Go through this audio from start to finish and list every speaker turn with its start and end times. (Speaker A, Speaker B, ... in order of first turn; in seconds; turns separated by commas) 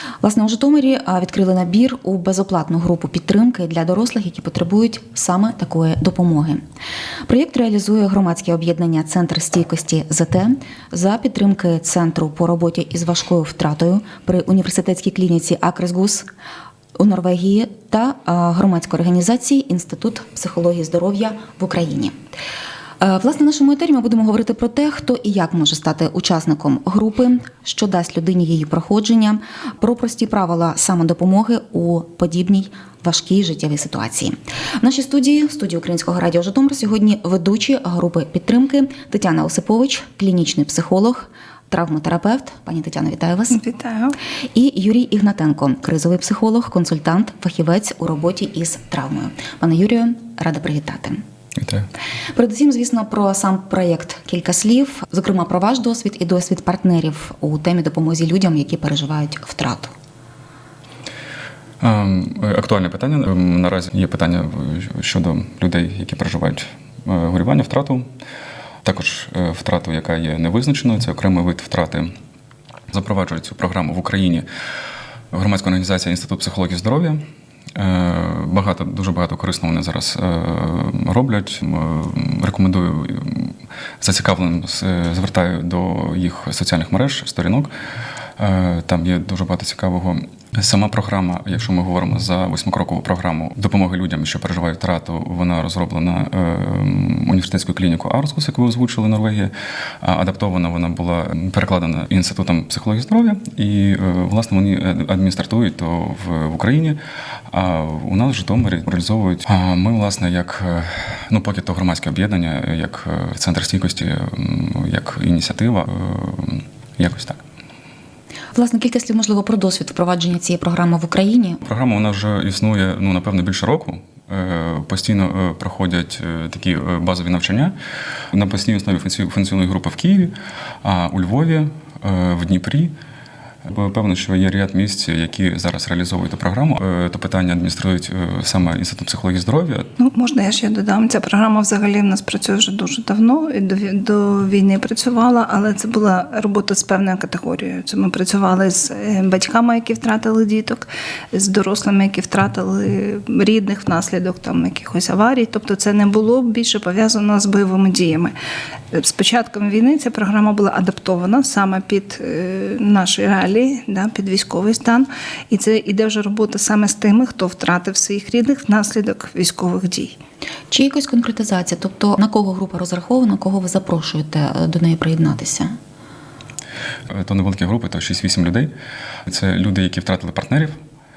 Speaker A: 0.2-6.6, Speaker A: 7.3-16.3, Speaker A: 16.9-22.1, Speaker A: 23.0-43.6, Speaker B: 43.5-44.1, Speaker A: 44.5-51.2, Speaker C: 51.6-51.9, Speaker A: 52.3-59.9, Speaker C: 61.8-68.1, Speaker C: 68.8-72.1, Speaker C: 72.9-74.5, Speaker C: 75.3-77.2, Speaker C: 77.7-87.7, Speaker C: 88.4-107.0, Speaker C: 107.5-117.4, Speaker A: 118.5-121.6, Speaker C: 121.6-127.7, Speaker C: 128.3-132.9, Speaker C: 133.6-139.9, Speaker B: 140.0-158.3, Speaker B: 158.9-170.2, Speaker A: 170.7-175.7, Speaker C: 177.1-178.7, Speaker C: 179.2-180.8